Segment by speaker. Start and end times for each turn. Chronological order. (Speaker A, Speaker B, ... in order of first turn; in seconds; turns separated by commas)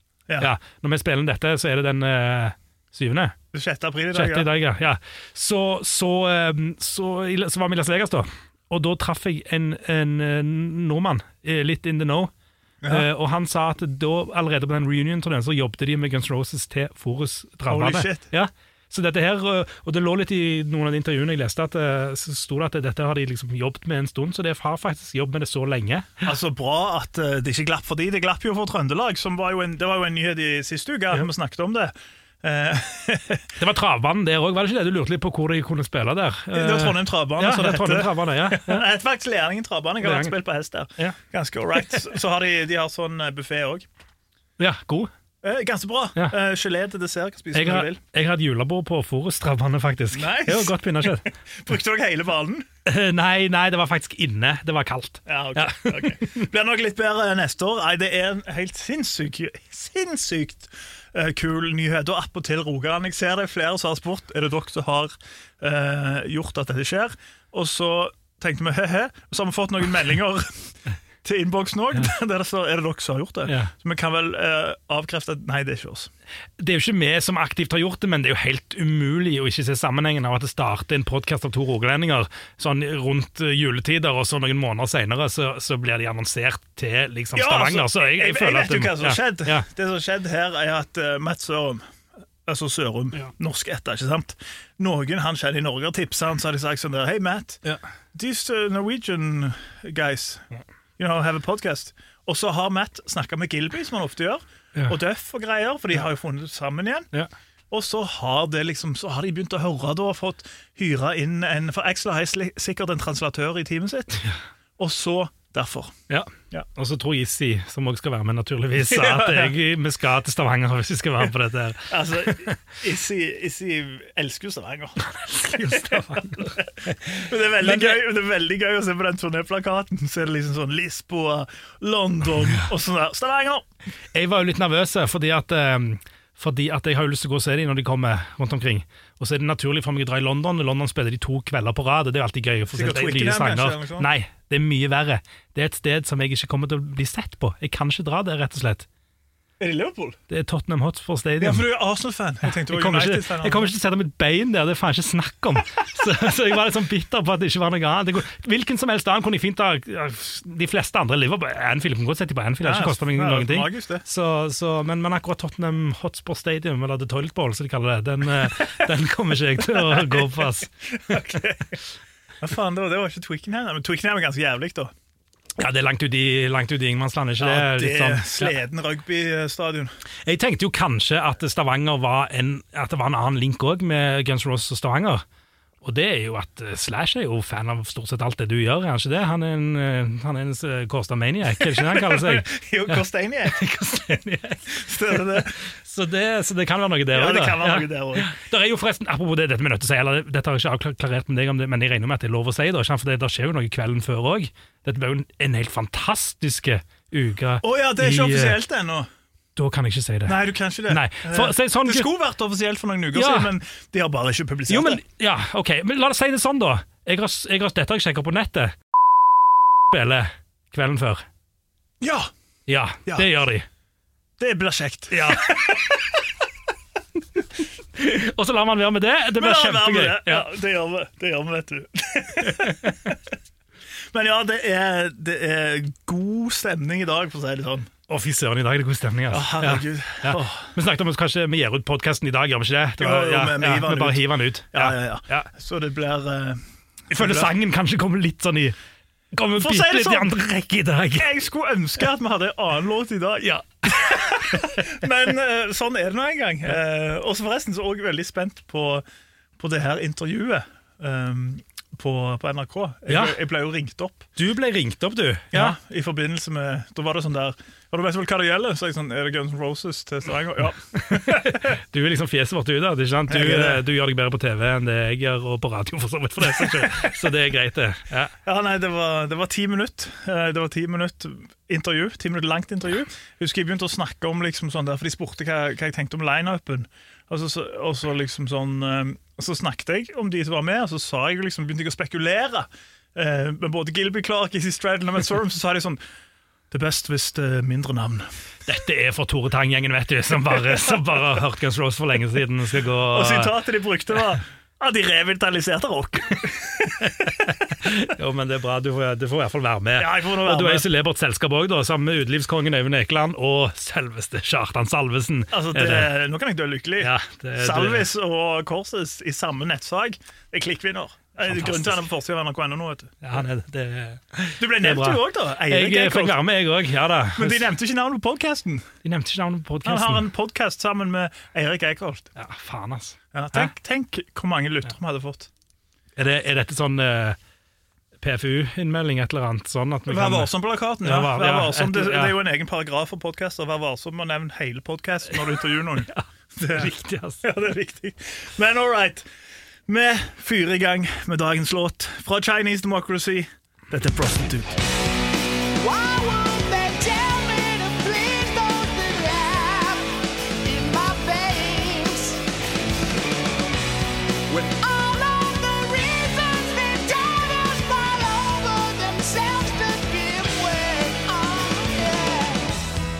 Speaker A: 0.4-3.4, Speaker B: 3.5-4.5, Speaker A: 4.1-12.3, Speaker B: 12.8-13.1, Speaker A: 12.9-26.3, Speaker B: 17.7-18.3, Speaker B: 26.2-33.5, Speaker A: 33.6-38.8, Speaker B: 36.5-43.8, Speaker A: 40.0-40.4, Speaker A: 44.6-45.1, Speaker B: 45.4-48.0, Speaker A: 47.5-51.2, Speaker B: 50.1-52.6, Speaker A: 52.9-56.4, Speaker B: 55.2-76.1, Speaker A: 73.5-73.7, Speaker A: 76.6-89.7, Speaker B: 87.3-91.9, Speaker B: 92.5-100.4, Speaker B: 101.0-107.1, Speaker B: 107.7-114.3, Speaker B: 114.8-115.9, Speaker A: 116.1-122.6, Speaker B: 118.8-119.5, Speaker B: 121.9-133.7, Speaker A: 125.0-128.0, Speaker A: 134.1-148.9, Speaker B: 142.7-144.1, Speaker B: 149.6-150.2, Speaker A: 150.3-151.6, Speaker B: 151.4-153.7, Speaker A: 152.4-171.2, Speaker B: 162.6-164.0, Speaker B: 169.7-171.8, Speaker B: 172.4-174.9, Speaker A: 175.6-178.5, Speaker B: 177.4-179.9, Speaker A: 180.2-185.2, Speaker A: 185.8-208.6, Speaker B: 191.6-193.6, Speaker B: 194.7-195.6, Speaker B: 197.1-198.3, Speaker B: 207.6-209.1, Speaker A: 209.6-212.1, Speaker B: 210.2-215.0, Speaker A: 213.1-213.5, Speaker A: 214.7-218.7, Speaker A: 219.9-221.2, Speaker B: 222.0-222.3, Speaker A: 222.7-223.7, Speaker B: 224.4-226.2, Speaker A: 225.1-225.6, Speaker A: 227.9-230.5, Speaker B: 229.4-233.2, Speaker A: 232.5-232.7, Speaker B: 234.1-237.9, Speaker A: 238.1-245.5, Speaker B: 239.3-240.7, Speaker B: 243.0-247.5, Speaker A: 247.1-248.8, Speaker A: 249.3-251.3, Speaker B: 249.5-250.3, Speaker B: 251.2-259.0, Speaker A: 253.4-254.6, Speaker B: 259.6-264.3, Speaker A: 263.1-263.4, Speaker A: 264.4-265.8, Speaker B: 265.5-271.8, Speaker A: 271.1-278.3, Speaker B: 273.3-273.8, Speaker B: 276.5-277.1, Speaker B: 278.4-296.0, Speaker B: 296.7-298.3, Speaker A: 298.6-303.5, Speaker B: 303.1-307.5, Speaker A: 307.0-316.1, Speaker B: 310.0-310.9, Speaker B: 315.5-323.2, Speaker A: 317.0-318.1, Speaker A: 321.5-322.0, Speaker A: 323.2-327.7, Speaker B: 324.6-326.4, Speaker B: 327.4-328.9, Speaker A: 329.0-330.2, Speaker B: 329.8-332.3, Speaker A: 332.4-333.7, Speaker B: 333.3-335.5, Speaker A: 336.2-337.4, Speaker A: 338.2-340.5, Speaker B: 340.1-349.2, Speaker A: 341.0-342.4, Speaker A: 345.5-347.4, Speaker B: 349.9-354.8, Speaker C: 355.8-360.1, Speaker C: 360.6-362.4, Speaker C: 364.5-372.8